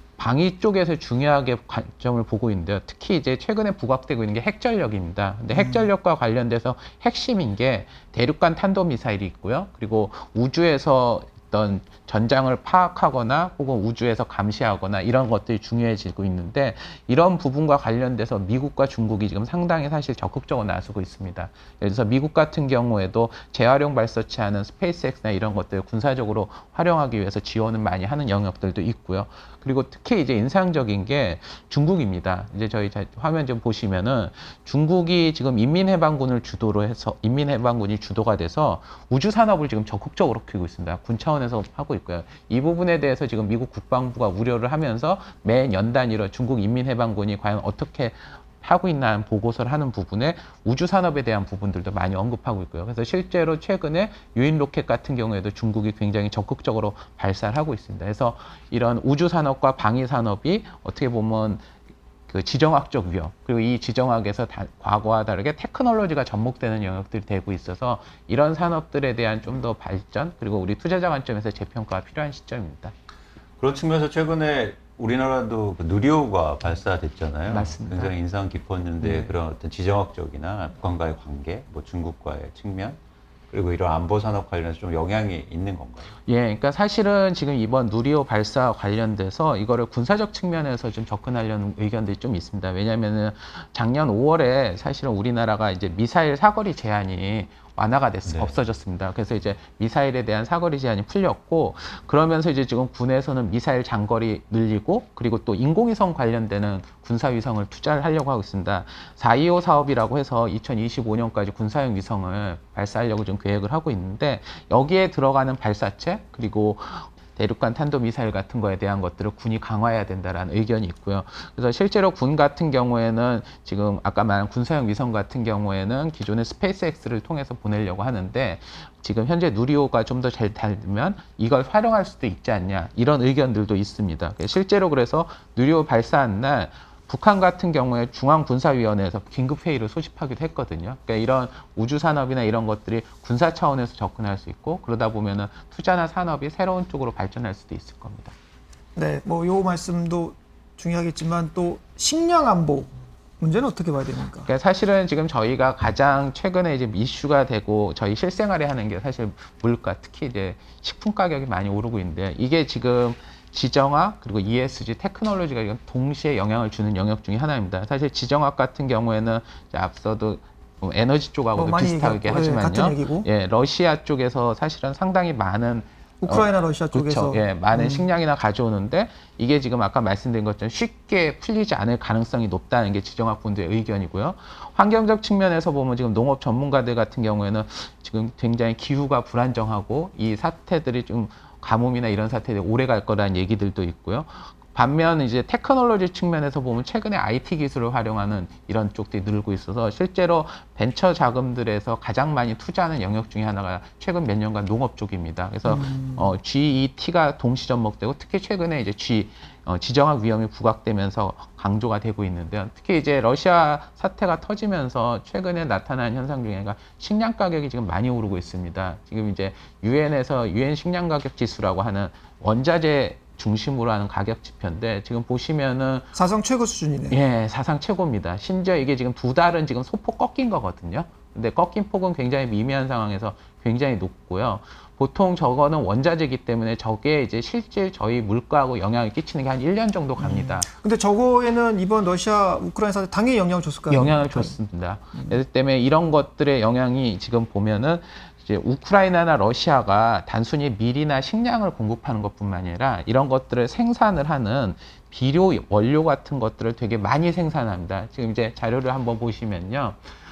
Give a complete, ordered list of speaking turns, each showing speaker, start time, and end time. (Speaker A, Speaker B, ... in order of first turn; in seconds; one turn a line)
Speaker A: 0.2-61.6
Speaker B: 5.5-5.8
Speaker A: 62.3-72.9
Speaker C: 73.6-83.0
Speaker A: 77.5-78.1
Speaker C: 83.5-86.1
Speaker A: 86.2-148.3
Speaker C: 98.2-98.5
Speaker B: 148.9-154.5
Speaker A: 154.4-226.1
Speaker B: 171.6-173.3
Speaker B: 176.2-178.1
Speaker B: 205.7-206.2
Speaker B: 226.1-227.2
Speaker A: 227.1-240.7
Speaker B: 240.2-244.6
Speaker A: 243.9-260.0